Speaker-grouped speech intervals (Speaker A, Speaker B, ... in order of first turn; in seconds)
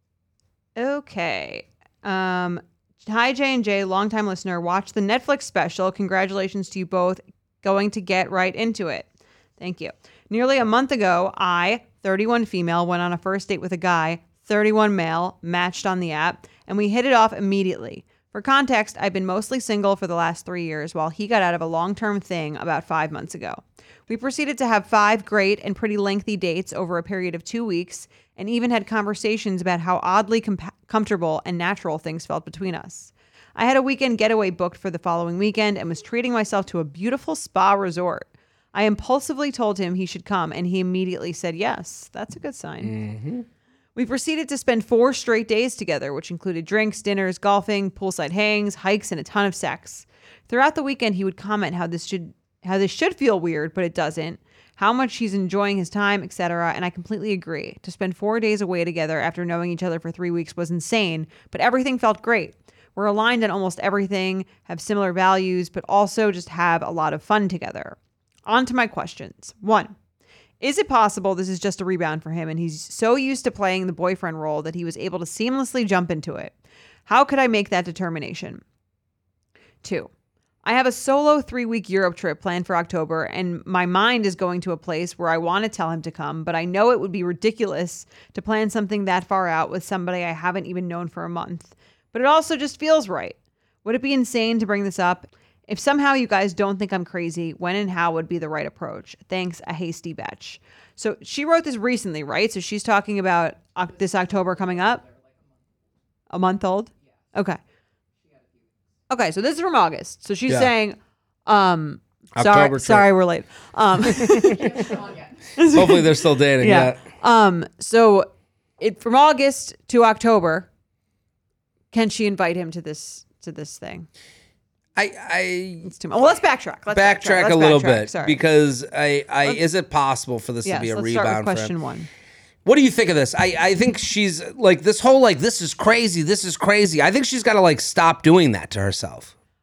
Speaker A: 0.8-9.1, 9.6-43.0, 44.0-70.0, 70.6-76.5, 77.1-78.6, 79.8-80.1, 80.6-105.0, 106.3-107.6, 109.1-120.7, 121.9-124.1, 125.8-128.4, 130.6-132.1
Speaker B: 42.8-43.5, 112.4-113.1, 114.1-114.9, 115.7-117.0, 125.0-125.9, 126.9-131.7, 132.7-139.3